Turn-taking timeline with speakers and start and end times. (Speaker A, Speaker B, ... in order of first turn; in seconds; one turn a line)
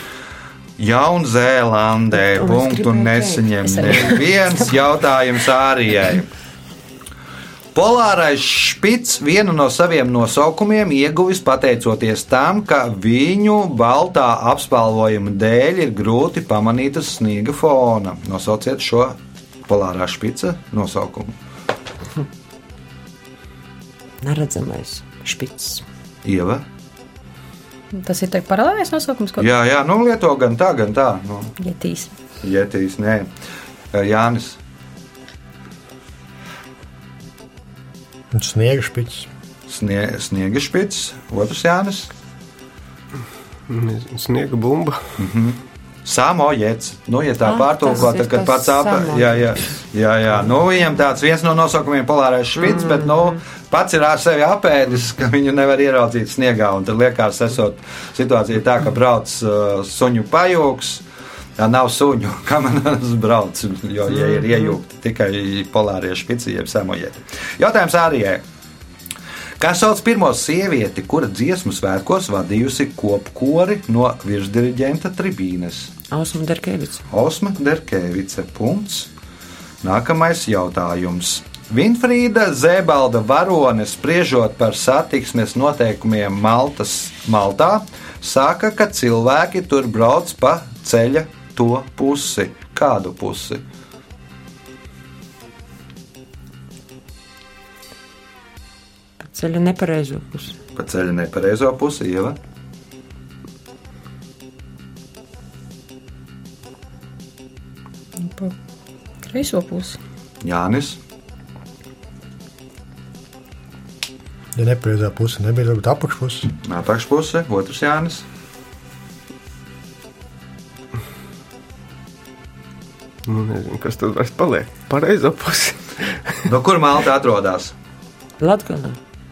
Speaker A: 0.8-6.3
Speaker B: 2.1-4.2
Speaker C: 3.7-4.3
Speaker A: 7.7-19.1
Speaker A: 19.7-21.3
Speaker B: 24.2-25.8
Speaker A: 26.2-26.6
Speaker C: 27.9-29.5
Speaker A: 29.4-31.5
Speaker C: 31.6-32.1
Speaker A: 32.4-33.3
Speaker A: 33.9-34.6
Speaker D: 38.3-39.3
Speaker A: 39.7-42.1
Speaker E: 43.7-45.1
Speaker A: 45.2-61.0
Speaker B: 47.4-49.6
Speaker A: 61.6-68.4
Speaker A: 69.6-75.9
Speaker B: 76.1-77.0
Speaker A: 77.1-79.1
Speaker A: 79.8-93.6
Speaker B: 99.2-100.5
Speaker A: 100.8-102.4
Speaker C: 108.2-108.5
Speaker C: 109.2-110.0
Speaker A: 110.4-111.0
Speaker D: 114.5-116.5
Speaker A: 116.6-118.2
Speaker E: 123.2-126.4
Speaker A: 126.5-127.7
Speaker B: 128.4-129.0